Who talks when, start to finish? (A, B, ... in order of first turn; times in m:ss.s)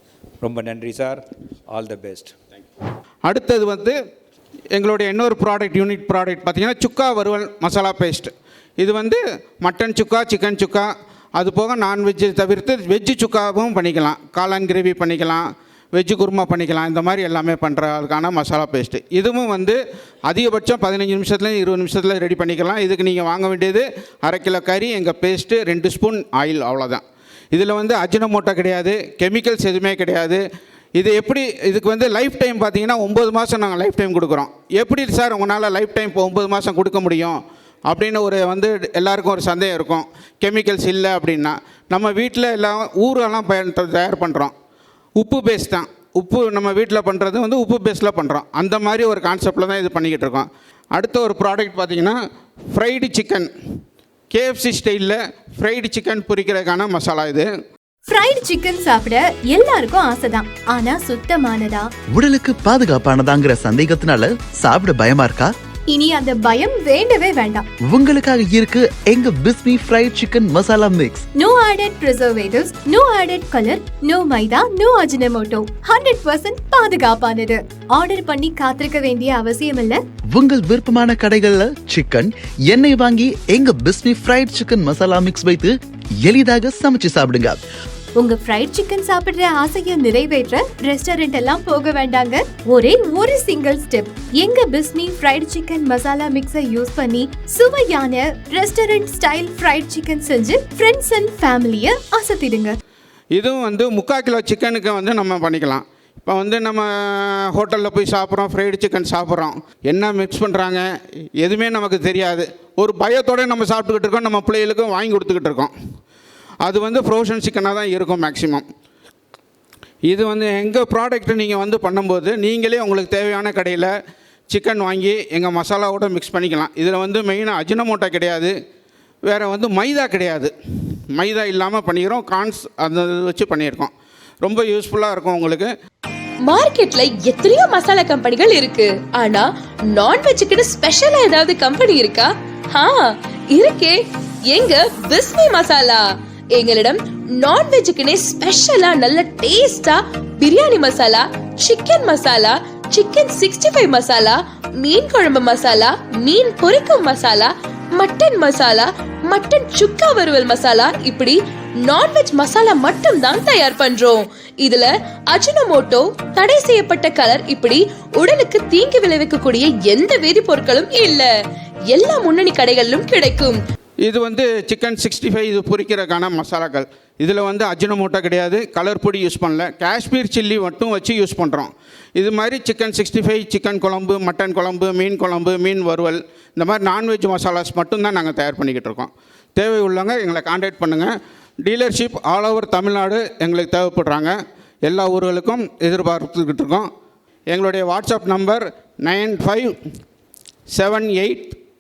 0:00.4-0:02.4 A
0:03.2-0:04.0 B
0:04.7-0:30.4 B
0:31.0-0:44.5 B
0:45.2-0:52.2 B
0:52.7-0:53.5 B
0:54.3-0:57.5 B
0:58.1-1:01.9 C
1:02.1-1:05.5 D
1:05.9-1:07.7 C
1:07.9-1:11.2 D
1:11.4-1:20.0 C
1:20.3-1:27.6 D
1:28.2-1:42.8 C
1:43.3-1:50.9 B
1:51.4-1:55.7 B
1:56.6-1:58.6 B
2:00.1-2:03.9 B
2:04.5-2:08.5 B
2:09.3-2:10.5 B
2:11.2-2:15.7 B
2:16.5-2:51.3 E
2:51.9-2:53.6 E
2:54.1-3:16.9 B
3:17.5-3:19.7 B
3:20.7-3:21.6 B